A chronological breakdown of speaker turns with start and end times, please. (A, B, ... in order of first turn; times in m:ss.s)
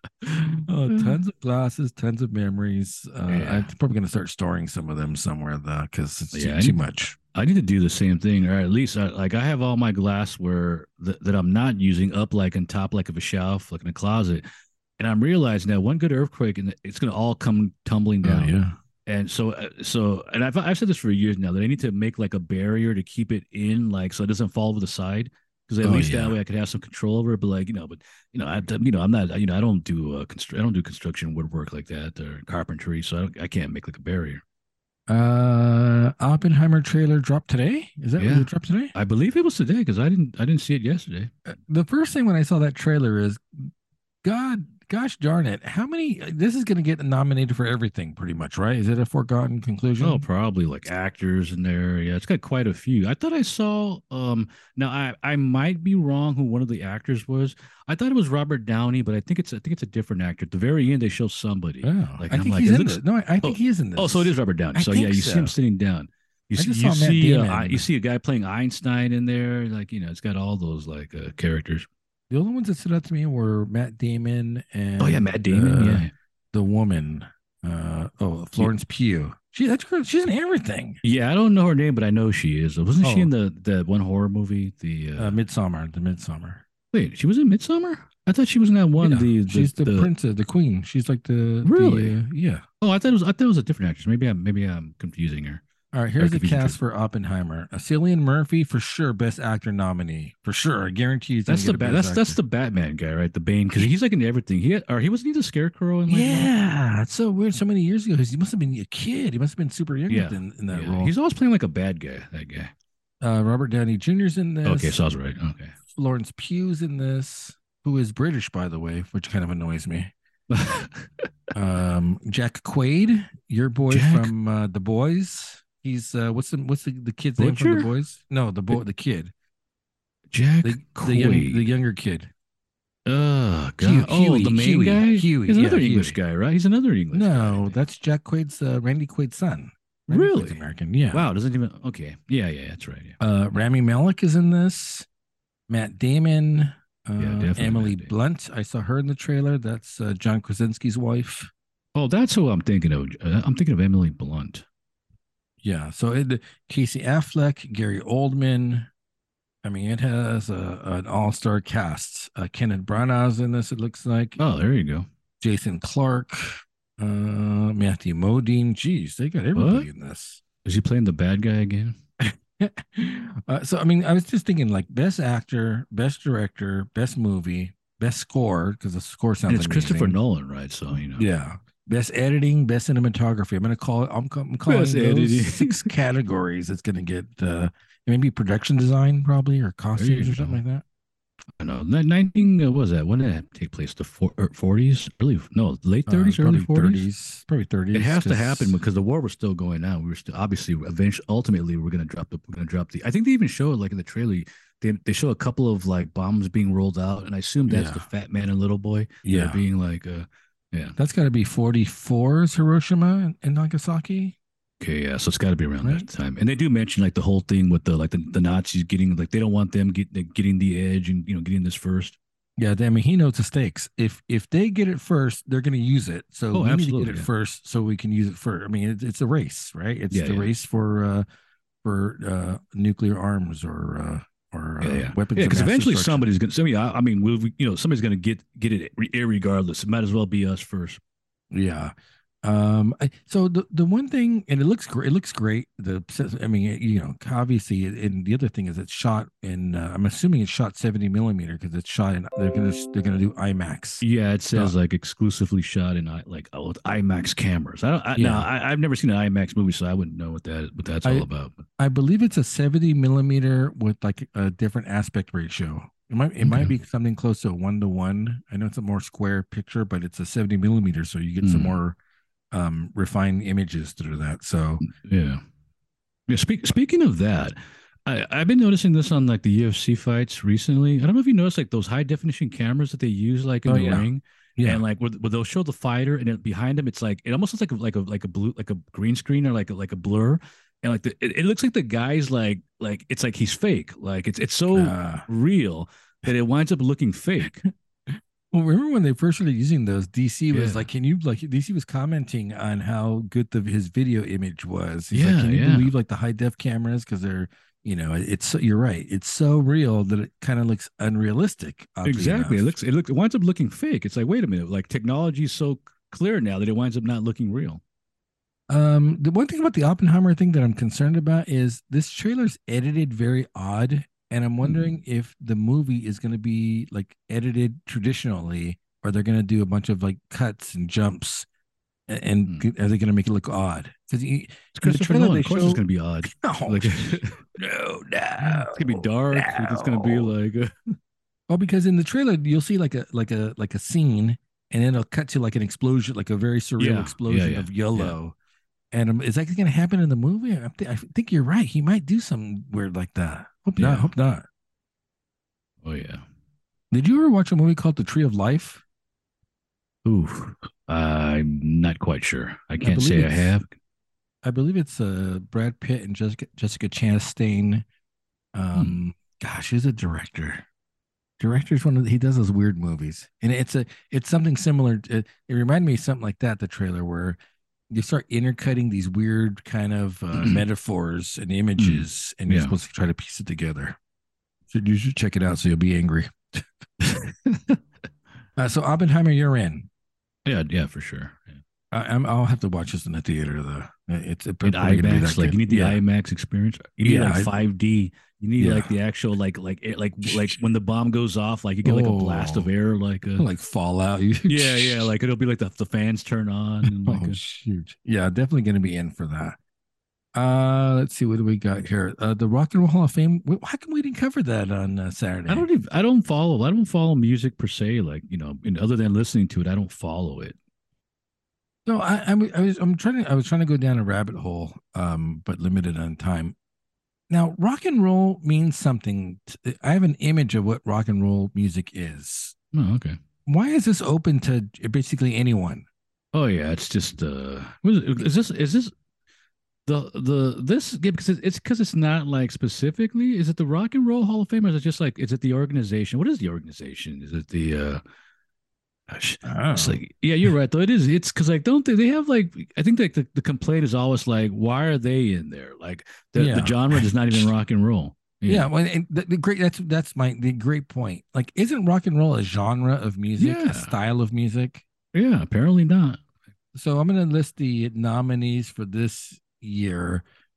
0:00.6-0:07.2 A
0:03.3-0:03.7 B
0:06.3-0:06.8 B
0:07.3-0:14.4 B
0:15.0-0:34.4 B
0:18.2-0:18.7 A
0:25.8-0:26.4 A
0:35.1-0:38.9 A
0:38.2-0:41.3 B
0:41.5-0:43.7 A
0:44.2-0:50.2 A
0:50.0-1:11.9 B
1:01.8-1:05.5 A
1:06.6-1:07.8 A
1:12.3-1:21.0 A
1:15.0-1:16.1 B
1:21.0-1:25.4 B
1:23.0-1:23.3 A
1:25.2-1:26.6 A
1:26.9-1:30.1 B
1:29.0-1:32.6 A
1:31.6-1:32.2 B
1:32.8-1:35.6 B
1:35.9-1:42.4 A
1:36.2-1:36.8 B
1:41.5-1:46.5 B
1:46.1-1:51.1 A
1:50.1-1:52.7 B
1:53.2-1:55.0 A
1:54.6-1:55.7 B
1:55.9-2:00.1 A
2:00.5-2:01.2 B
2:01.5-2:09.3 A
2:03.9-2:04.3 B
2:07.4-2:07.9 B
2:10.3-2:11.6 B
2:10.6-2:12.3 A
2:13.0-2:17.8 B
2:13.8-2:16.2 A
2:17.1-2:21.2 A
2:20.1-2:23.2 B
2:23.2-2:25.1 A
2:25.7-2:31.5 A
2:27.2-2:28.1 B
2:31.9-2:34.6 B
2:35.6-2:38.9 A
2:39.6-2:44.4 A
2:44.4-2:45.1 B
2:45.4-2:50.4 A
2:49.5-2:49.9 B
2:50.6-2:52.0 B
2:52.2-3:00.2 A
2:59.5-3:01.3 B
3:01.1-3:10.8 A
3:04.6-3:05.9 B
3:10.0-3:10.6 B
3:11.6-3:17.1 B
3:16.1-3:18.8 A
3:17.9-3:31.0 B
3:27.7-3:28.1 A
3:29.2-3:29.6 A
3:31.0-3:34.4 A
3:34.8-3:42.2 B
3:35.8-3:36.1 A
3:42.6-3:51.2 A
3:46.5-3:47.3 B
3:50.1-3:50.5 B
3:51.8-3:56.3 A
3:54.8-4:01.0 B
4:01.5-4:14.0 A
4:14.0-4:21.6 B
4:18.2-4:18.5 A
4:21.8-4:32.0 A
4:26.4-4:26.7 B
4:31.4-4:31.8 B
4:32.5-4:34.8 A
4:34.8-4:35.4 B
4:36.3-4:57.6 B
4:43.6-4:44.8 A
4:54.7-4:55.2 A
4:57.4-5:12.8 A
5:00.5-5:00.8 B
5:05.1-5:05.9 B
5:12.0-5:17.8 B
5:18.7-5:31.5 A
5:24.6-5:24.9 B
5:32.1-5:37.6 A
5:34.7-5:40.9 B
5:38.4-5:40.3 A
5:41.5-5:48.3 A
5:46.8-5:48.2 B
5:48.9-5:54.4 A
5:53.8-5:54.1 B
5:55.8-5:56.2 B
5:56.9-5:58.8 A
6:00.0-6:03.6 B
6:02.8-6:03.5 A
6:04.4-6:07.8 A
6:08.5-6:10.6 A
6:11.4-6:17.4 A
6:17.9-6:24.0 A
6:20.3-6:20.6 B
6:21.8-6:22.7 B
6:24.7-6:26.7 A
6:27.0-6:27.8 B
6:28.6-6:29.9 A
6:30.4-6:31.6 B
6:31.9-6:36.0 A
6:34.6-6:43.4 B
6:37.0-6:37.5 A
6:38.6-6:38.9 A
6:40.3-6:40.5 A
6:41.8-6:42.7 A
6:43.4-6:45.1 A
6:44.5-6:47.4 B
6:46.8-6:49.6 A
6:50.3-6:55.7 A
6:55.5-7:00.6 B
7:01.8-7:06.6 A
7:07.3-7:12.5 A
7:12.7-7:13.2 B
7:13.4-7:15.8 A
7:16.3-7:18.9 B
7:19.8-7:28.0 B
7:29.1-7:38.7 B
7:29.4-7:30.0 A
7:36.3-7:37.5 A
7:38.5-7:44.8 A
7:43.4-7:43.9 B
7:45.1-7:46.2 B
7:46.7-7:50.2 A